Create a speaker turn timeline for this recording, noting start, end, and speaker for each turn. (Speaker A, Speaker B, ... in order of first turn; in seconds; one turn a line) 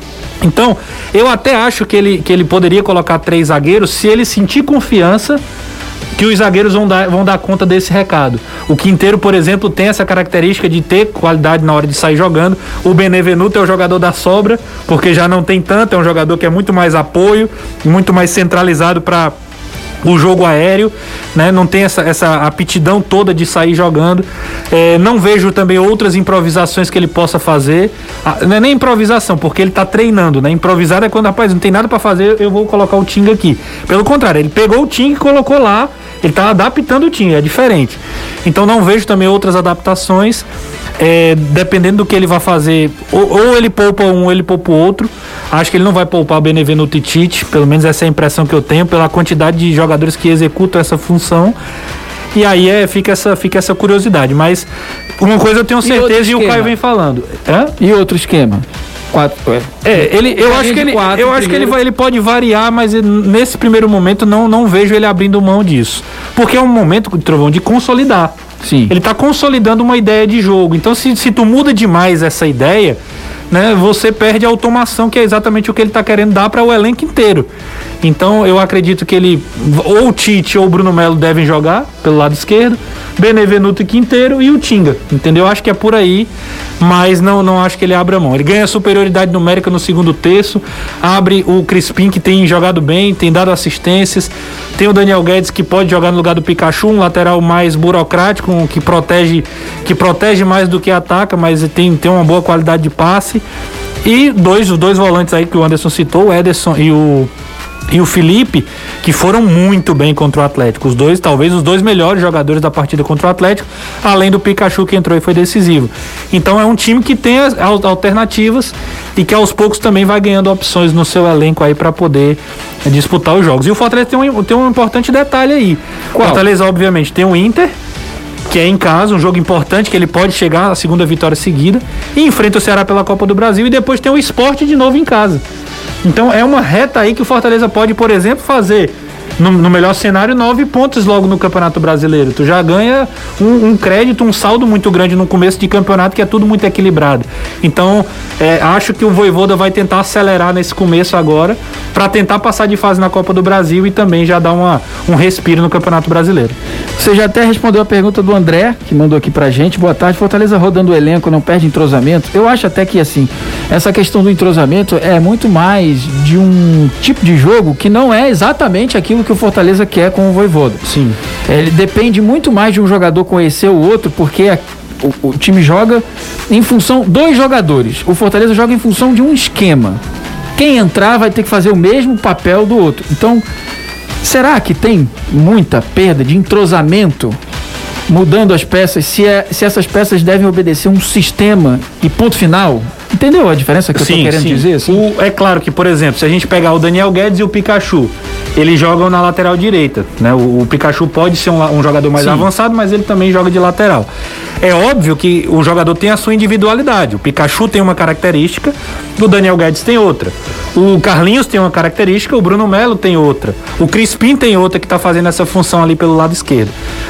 Speaker A: 0.4-5.4
Speaker A: 6.2-19.3
Speaker A: 20.0-40.5
Speaker A: 41.0-51.5
Speaker A: 52.3-54.7
Speaker A: 55.2-57.7
Speaker B: 55.8-56.7
Speaker B: 57.8-61.7
Speaker A: 59.8-68.3
Speaker B: 68.6-68.9
Speaker A: 68.9-73.0
Speaker A: 73.5-77.5
Speaker A: 78.0-103.4
Speaker A: 104.0-107.3
Speaker A: 107.9-127.7
Speaker B: 126.1-126.4
Speaker A: 128.5-135.4
Speaker A: 136.0-156.6
Speaker B: 157.0-170.8
Speaker A: 170.8-171.2
Speaker B: 171.5-180.0
Speaker B: 180.6-183.4
Speaker B: 184.2-187.4
Speaker B: 188.1-195.0
Speaker A: 193.9-204.1
Speaker B: 202.2-202.4
Speaker A: 204.6-216.7